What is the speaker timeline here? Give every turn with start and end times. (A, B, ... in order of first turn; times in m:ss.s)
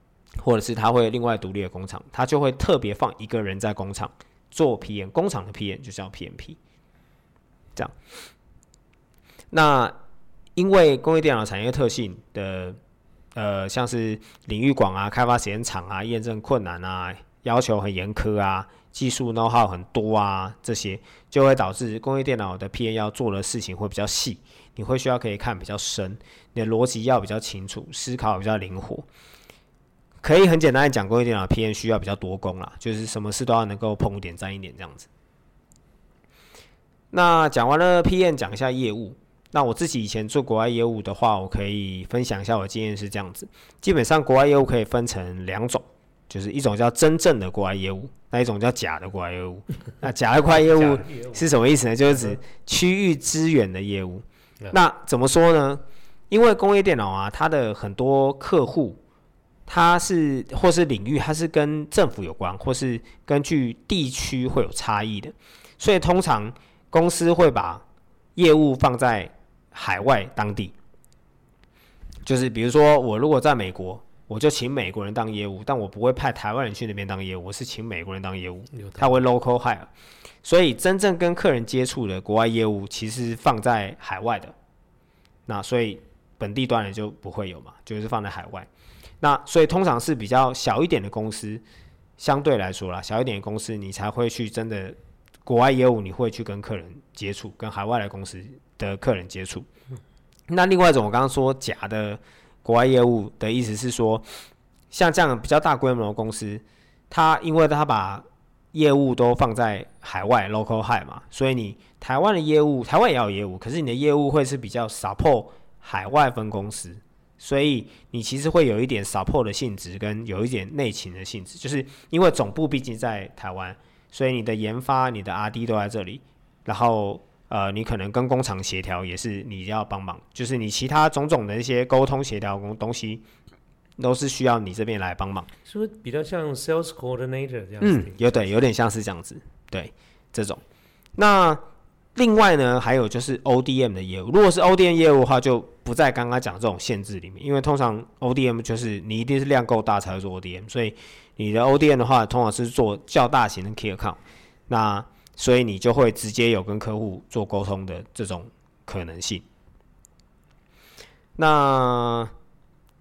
0:00.4-0:06.6 A
0:09.5-0:10.0 A
0:10.6-0:12.8 A
0:13.3-0:29.0 A
0:30.2-0:35.1 A
0:37.1-0:59.0 A
0:50.5-0:51.5 B
0:52.1-0:52.4 B
0:59.7-1:07.8 A
1:08.4-1:10.7 A
1:12.2-1:19.9 A
1:18.8-1:19.0 B
1:20.4-1:24.5 A
1:25.5-1:28.7 A
1:29.2-1:31.6 A
1:32.2-1:39.7 A
1:40.5-1:44.3 A
1:44.9-2:13.2 A
2:14.0-2:15.5 A
2:15.6-2:18.5 B
2:17.8-2:20.6 A
2:21.2-2:21.6 A
2:22.1-2:39.4 A
2:41.4-2:42.3 A